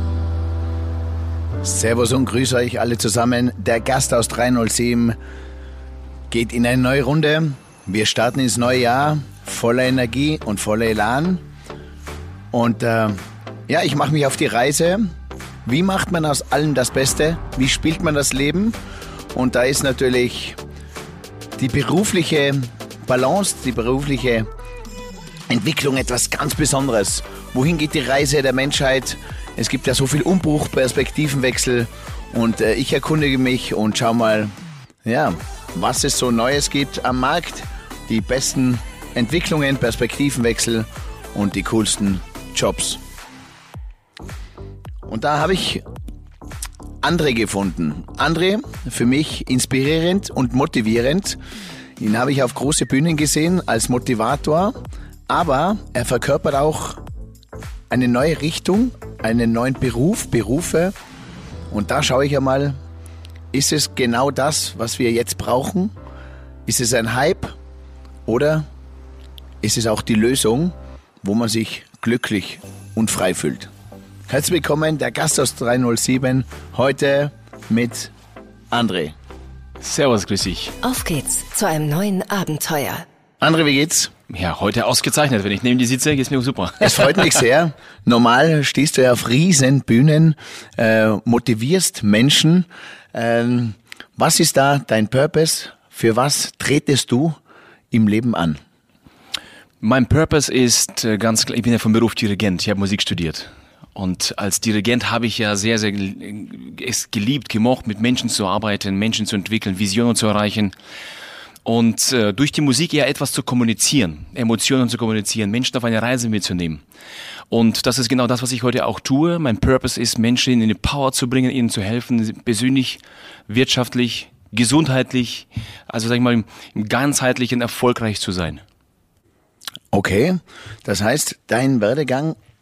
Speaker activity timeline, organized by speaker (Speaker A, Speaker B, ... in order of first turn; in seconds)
Speaker A: 1.6-5.2, 6.3-11.4, 12.5-15.1, 15.6-18.8, 19.3-20.6, 21.6-24.5, 25.5-34.5, 35.0-43.0, 45.0-45.8, 47.0-51.4, 52.0-54.7, 55.3-57.0, 57.9-60.9, 61.7-62.8, 63.5-65.9, 66.7-67.6, 68.2-68.7, 69.6-73.7, 74.3-78.1, 78.7-79.1, 83.4-84.1, 86.8-97.4, 97.9-98.6, 129.9-132.4
Speaker B: 79.8-80.8, 84.3-87.4, 99.8-110.7, 111.6-116.8, 117.5-128.6
Speaker C: 80.8-83.0